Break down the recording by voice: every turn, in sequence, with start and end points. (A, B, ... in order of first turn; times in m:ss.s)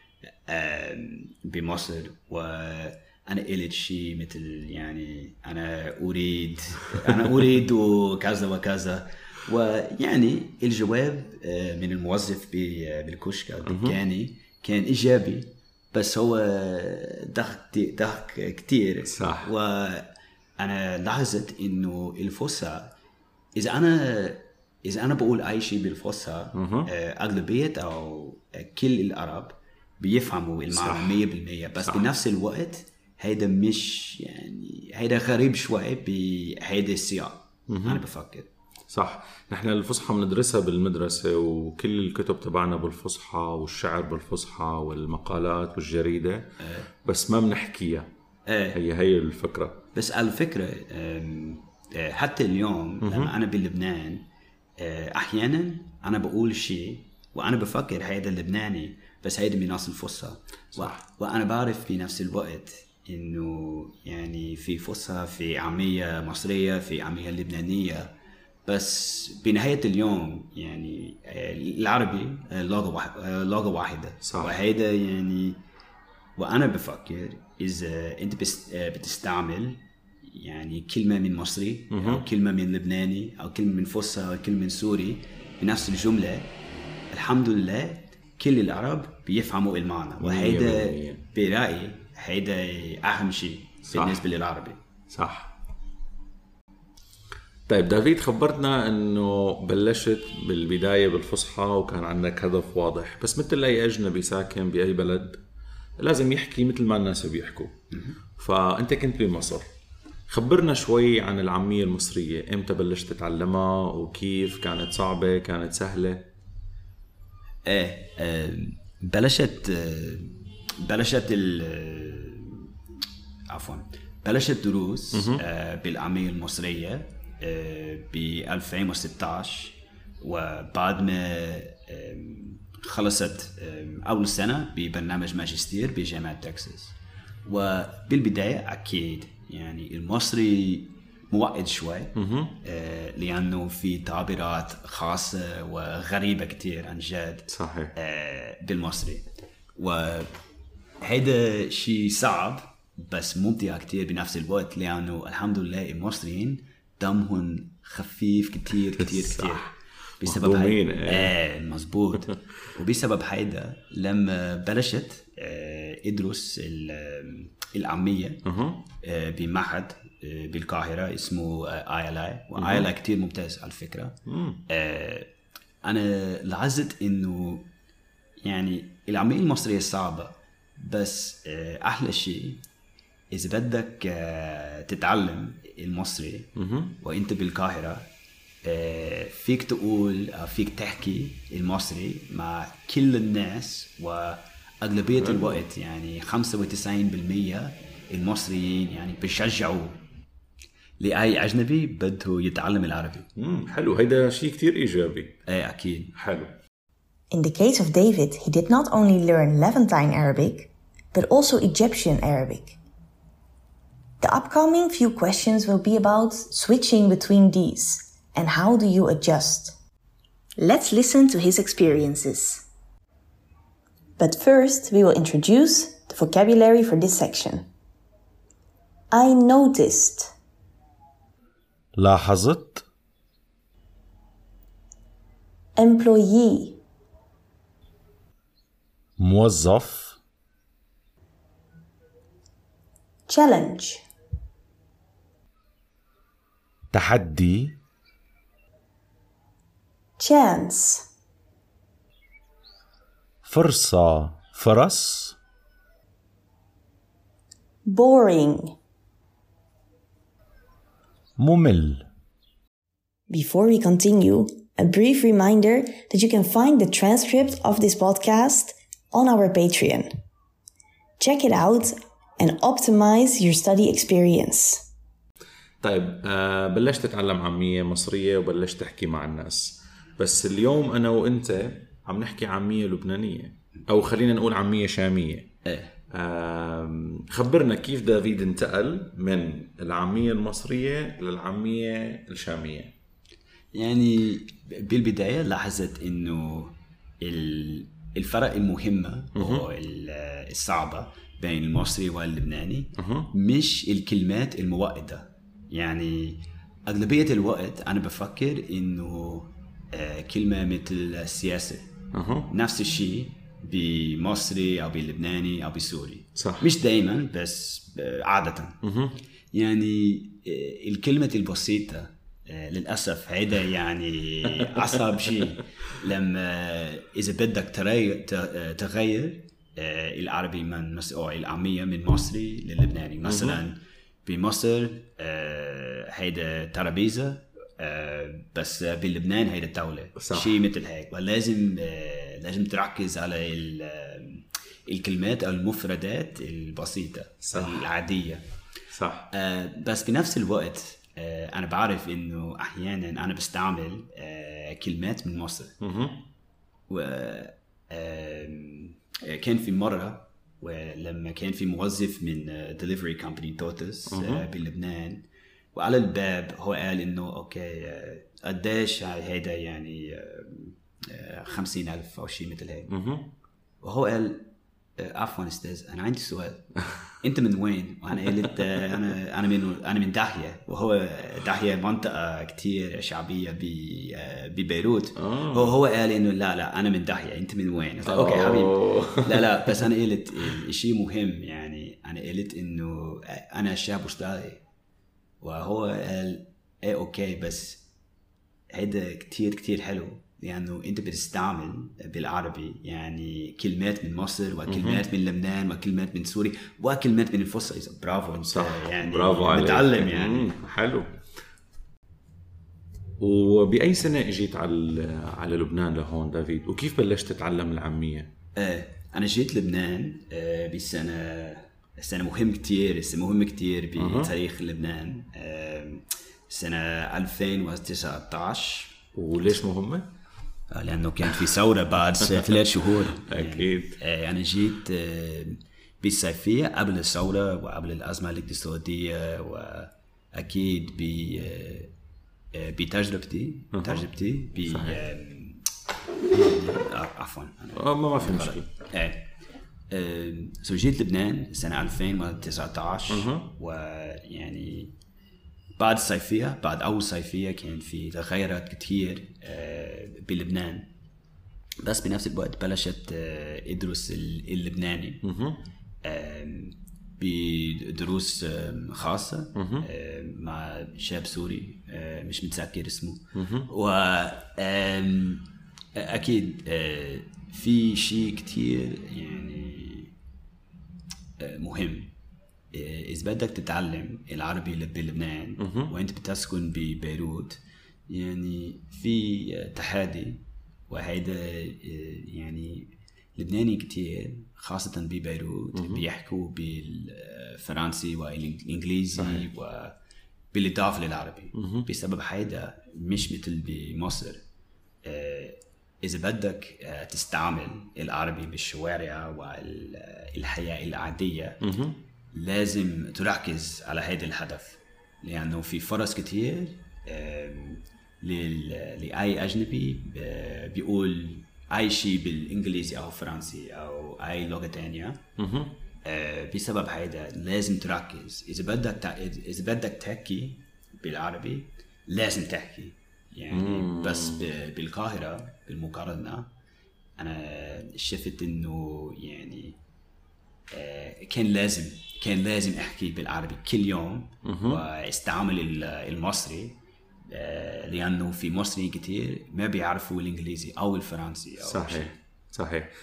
0:00.5-0:22.9 A
0:13.6-0:14.0 B
0:19.0-0:19.5 B
0:23.6-0:38.5 A
0:26.5-0:26.9 B
0:30.7-0:31.2 B
0:37.7-0:38.0 B
0:38.9-0:48.1 B
0:46.6-0:46.9 A
0:48.5-0:48.8 A
0:48.7-0:49.8 B
0:49.9-0:54.2 A
0:53.0-0:53.3 B
0:54.8-1:08.1 A
1:00.7-1:01.0 B
1:08.7-1:15.6 A
1:14.2-1:14.6 B
1:16.4-1:26.5 A
1:21.9-1:22.2 B
1:27.1-1:34.8 A
1:30.2-1:31.2 B
1:33.9-1:34.2 B
1:35.1-1:35.5 B
1:37.7-1:45.4 B
1:46.0-1:47.7 B
1:47.9-1:48.2 A
1:48.4-1:49.6 B
1:50.3-1:56.3 B
1:57.7-2:02.7 A
2:03.5-2:30.3 A
2:05.1-2:05.4 B
2:22.2-2:22.5 B
2:27.5-2:27.9 B
2:31.0-2:48.4 A
2:39.0-2:41.3 B
2:48.4-2:48.8 B
2:49.0-2:54.2 A
2:52.6-2:52.9 B
2:54.2-2:54.6 B
2:54.7-2:55.3 A
2:55.8-2:57.7 A
2:58.4-3:02.6 A
3:03.3-3:08.1 A
3:06.6-3:06.9 B
3:08.6-3:20.0 A
3:15.2-3:15.6 B
3:21.0-3:23.3 A
3:23.4-3:25.4 B
3:25.4-3:26.1 A
3:26.1-3:26.5 B
3:27.3-3:32.8 C
3:34.2-3:39.8 C
3:40.6-3:42.6 C
3:44.2-3:47.7 C
3:49.1-3:50.3 C
3:52.0-3:52.8 B
3:55.8-3:56.8 C
3:59.2-4:00.2 B
4:03.3-4:04.0 C
4:06.9-4:07.8 B
4:10.2-4:11.1 C
4:13.4-4:15.4 B
4:17.8-4:18.8 C
4:21.4-4:22.1 B
4:23.3-4:30.1 C
4:31.2-4:34.8 C
4:35.8-4:45.5 B
4:45.6-4:45.9 A
4:46.1-4:52.9 B
4:53.7-5:11.9 A
4:59.4-4:59.7 B
5:03.0-5:03.3 B
5:12.1-5:12.5 B
5:12.5-5:18.8 A
5:16.4-5:16.6 B
5:18.8-5:19.2 B
5:19.5-5:48.4 A
5:33.2-5:33.6 B
5:40.2-5:40.6 B
5:47.4-5:47.8 B
5:48.9-5:49.3 B
5:49.3-5:55.8 A
5:55.8-5:56.2 B
5:56.9-6:12.9 A
6:04.1-6:04.4 B
6:12.9-6:13.3 B
6:13.8-6:34.6 A
6:25.2-6:25.8 B
6:28.0-6:29.9 B
6:35.4-6:37.8 A
6:38.7-6:50.5 A
6:44.7-6:45.0 B
6:48.4-6:51.2 B
6:53.2-6:58.3 B
6:58.6-7:09.5 A
7:04.0-7:04.3 B
7:09.1-7:10.1 B
7:10.7-7:21.9 A
7:12.2-7:12.6 B
7:13.1-7:14.0 B
7:22.5-7:25.6 A
7:23.7-7:24.0 B
7:24.7-7:25.0 B
7:26.3-7:29.2 A
7:27.7-7:28.7 B
7:29.9-7:34.9 A
7:33.1-7:33.5 B
7:35.8-7:40.9 A
7:41.8-7:45.2 A
7:45.2-7:45.6 B
7:46.0-8:00.1 A
7:49.5-7:49.9 B
7:53.3-7:53.7 B
8:01.4-8:02.1 A
8:02.7-8:20.0 A
8:05.6-8:05.9 B
8:15.7-8:16.0 B
8:19.2-8:19.4 B
8:20.5-8:24.4 A
8:21.5-8:21.9 B
8:25.0-8:31.6 A
8:31.6-8:32.0 B
8:32.3-8:45.2 A
8:45.4-8:45.8 B
8:46.0-8:56.5 A
8:53.5-8:54.5 B
8:57.2-8:59.8 A
9:00.7-9:06.8 A
9:04.4-9:04.8 B
9:07.3-9:12.2 A
9:11.6-9:12.9 B